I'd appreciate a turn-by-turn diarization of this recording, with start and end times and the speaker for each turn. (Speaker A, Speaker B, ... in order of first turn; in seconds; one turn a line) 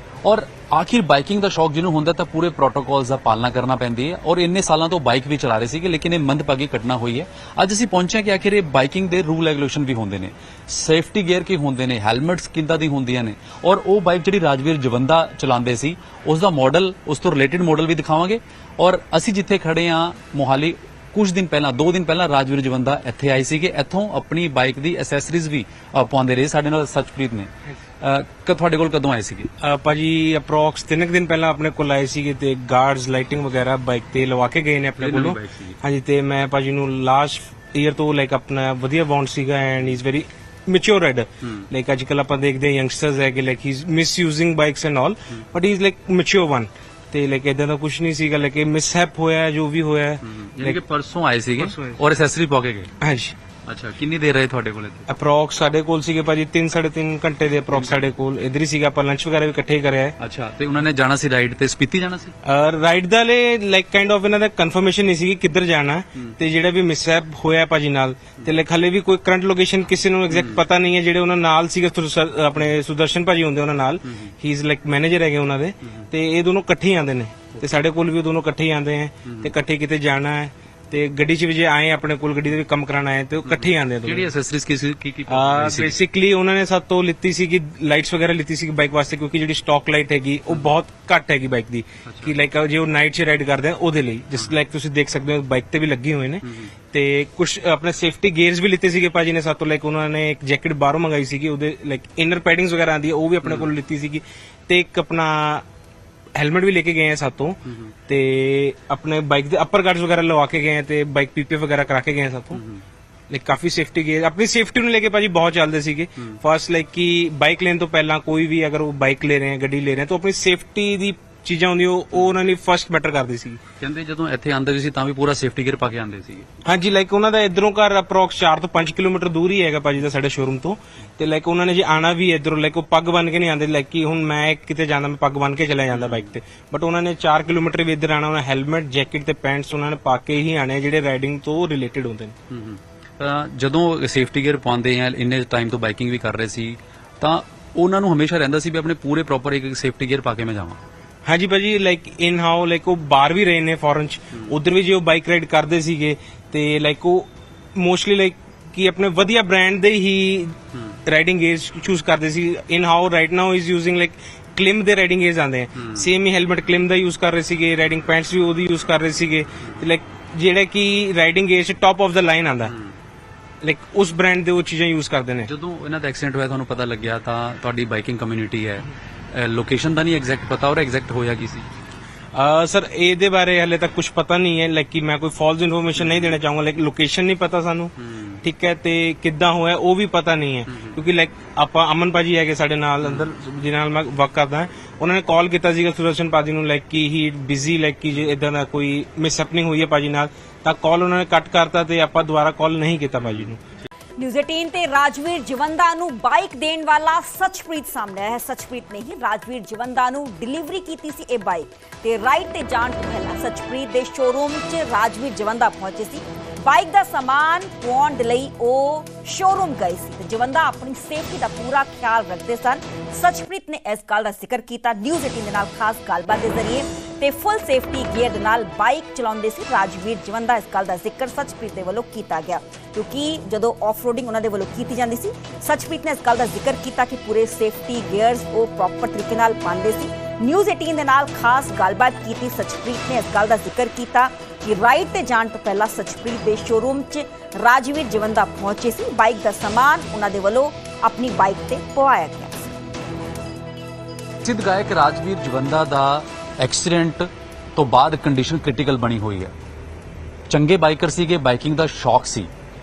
Speaker A: 0.2-29.5
Speaker B: 29.6-50.8
Speaker A: 35.0-35.8
Speaker A: 41.4-41.7
Speaker A: 50.2-52.9
Speaker B: 51.6-52.0
Speaker B: 53.0-53.3
Speaker A: 53.7-55.1
Speaker B: 55.1-60.2
Speaker A: 57.7-58.1
Speaker A: 60.2-62.3
Speaker B: 62.4-84.3
Speaker A: 70.3-70.7
Speaker A: 74.0-74.3
Speaker A: 75.8-76.1
Speaker A: 79.2-79.5
Speaker A: 83.5-86.0
Speaker B: 85.3-105.6
Speaker A: 92.0-92.4
Speaker A: 96.4-96.7
Speaker A: 103.4-103.7
Speaker B: 106.3-112.6
Speaker A: 107.7-107.9
Speaker A: 112.5-112.8
Speaker B: 113.3-123.6
Speaker A: 123.8-126.5
Speaker B: 126.7-142.3
Speaker A: 135.9-136.3
Speaker A: 142.5-150.8
Speaker B: 151.3-172.7
Speaker A: 160.7-161.0
Speaker A: 165.8-166.1
Speaker A: 172.7-173.0
Speaker B: 173.6-175.5
Speaker A: 175.4-181.7
Speaker B: 182.3-203.6
Speaker A: 186.0-186.4
Speaker A: 188.0-188.4
Speaker A: 190.7-191.0
Speaker A: 193.0-193.3
Speaker A: 203.2-203.5
Speaker C: 204.2-252.7
Speaker A: 254.4-259.5
Speaker A: 260.5-262.5